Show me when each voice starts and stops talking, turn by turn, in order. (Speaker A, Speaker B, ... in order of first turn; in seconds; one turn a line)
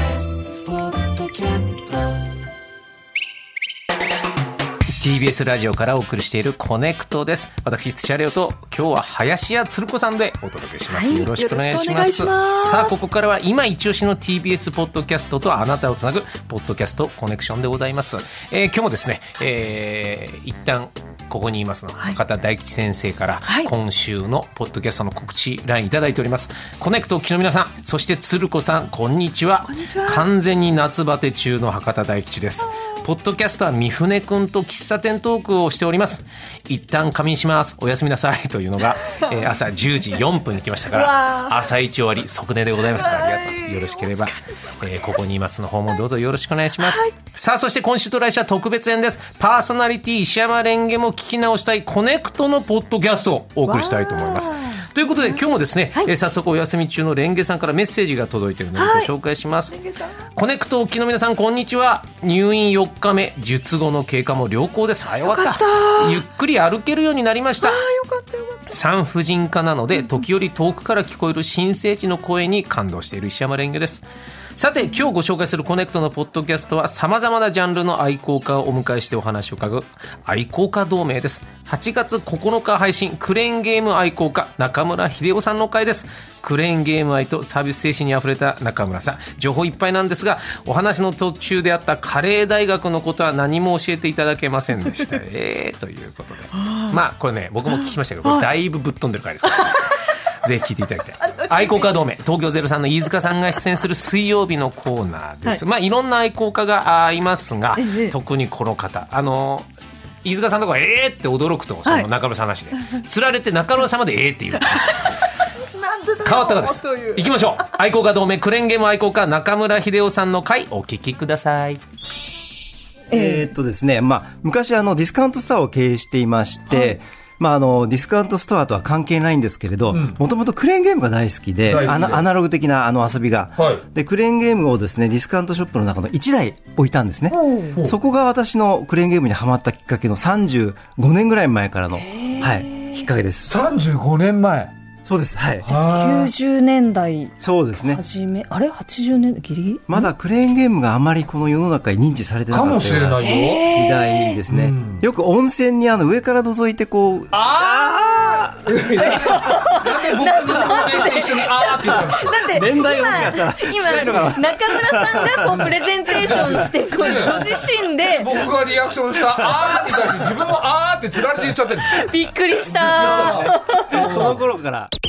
Speaker A: 0.5-2.0
Speaker B: 5.0-67.9
Speaker A: 10.9-12.9
Speaker A: 29.8-30.2
Speaker A: 53.7-54.7
Speaker A: 58.8-59.1
Speaker A: 65.4-66.1
Speaker A: 67.7-68.6
Speaker B: 68.7-74.0
Speaker B: 74.6-109.7
Speaker B: 110.2-115.3
Speaker A: 115.8-117.2
Speaker B: 116.2-121.8
Speaker C: 123.1-123.5
Speaker D: 123.1-143.6
Speaker E: 129.9-130.2
Speaker E: 131.7-132.3
Speaker E: 133.6-133.8
Speaker C: 137.3-137.8
Speaker C: 142.0-143.0
Speaker E: 143.5-144.7
Speaker D: 145.1-145.7
Speaker E: 145.6-146.3
Speaker C: 145.7-150.1
Speaker D: 147.4-148.0
Speaker D: 149.9-158.5
Speaker E: 152.5-153.7
Speaker C: 153.2-154.4
Speaker E: 154.5-155.1
Speaker E: 157.3-162.6
Speaker C: 159.0-168.3
Speaker D: 162.4-167.1
Speaker E: 166.2-167.4
Speaker E: 168.0-172.1
Speaker C: 171.9-174.3
Speaker E: 172.6-174.4
Speaker D: 172.9-174.9